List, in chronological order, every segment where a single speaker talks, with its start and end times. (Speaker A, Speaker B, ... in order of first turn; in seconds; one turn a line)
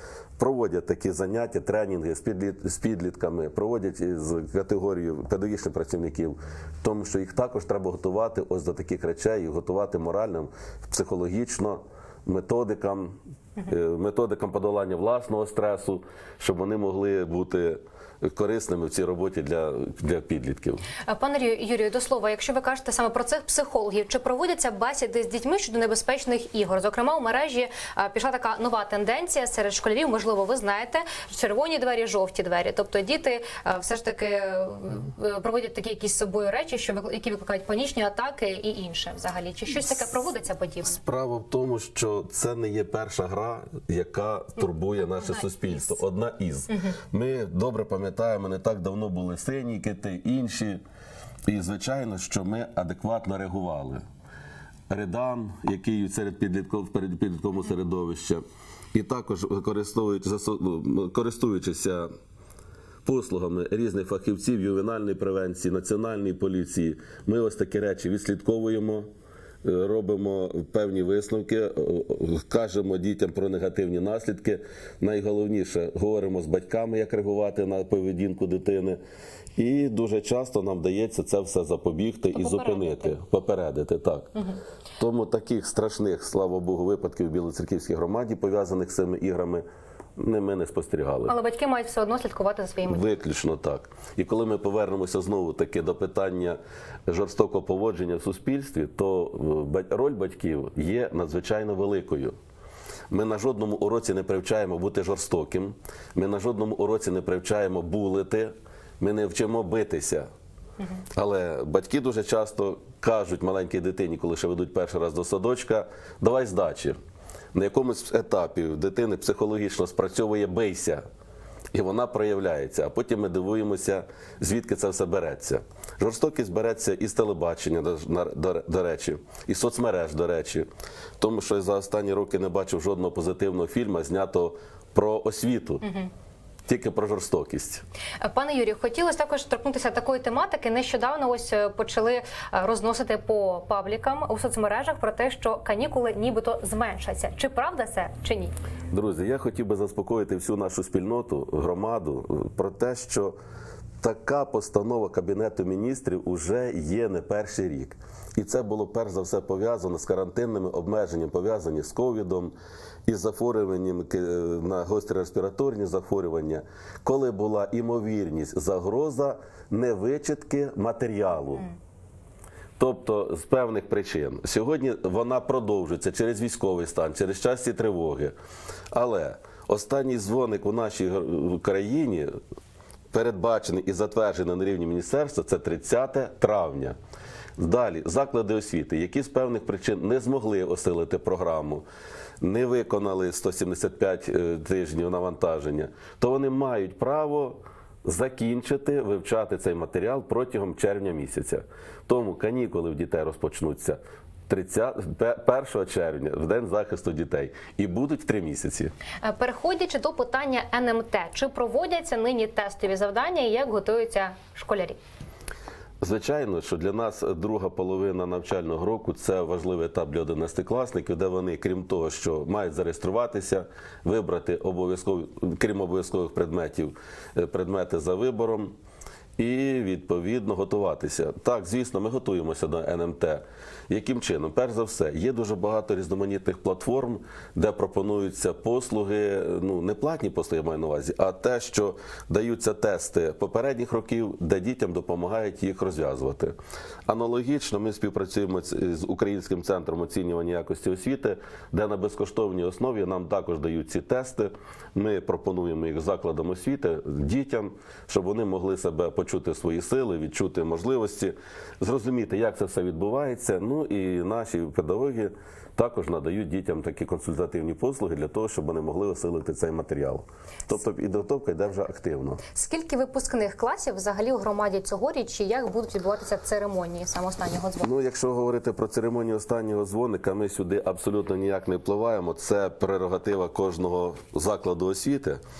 Speaker A: 0.4-20.8
Speaker B: 21.1-41.0
Speaker A: 40.9-50.8
Speaker B: 45.2-45.8
Speaker B: 46.7-47.0
Speaker A: 51.5-54.0
Speaker A: 54.9-58.4
Speaker A: 58.9-62.1
Speaker A: 63.0-69.1
Speaker A: 69.6-79.0
Speaker A: 79.6-84.3
Speaker B: 82.3-83.1
Speaker A: 85.0-89.6
Speaker A: 90.2-91.3
Speaker B: 91.3-93.0
Speaker A: 92.9-102.3
Speaker A: 103.1-110.3
Speaker A: 111.1-117.0
Speaker A: 117.5-121.0
Speaker A: 121.7-130.7
Speaker A: 131.2-135.8
Speaker B: 135.8-136.1
Speaker A: 136.7-137.8
Speaker B: 138.2-148.5
Speaker A: 148.9-153.3
Speaker A: 154.0-162.5
Speaker A: 163.1-171.7
Speaker A: 172.8-178.3
Speaker A: 178.9-182.3
Speaker A: 183.1-186.9
Speaker A: 187.6-191.8
Speaker A: 192.4-208.9
Speaker B: 209.2-215.0
Speaker A: 216.0-228.7
Speaker A: 229.4-246.6
Speaker A: 247.1-272.4
Speaker B: 272.5-277.9
Speaker A: 277.8-285.4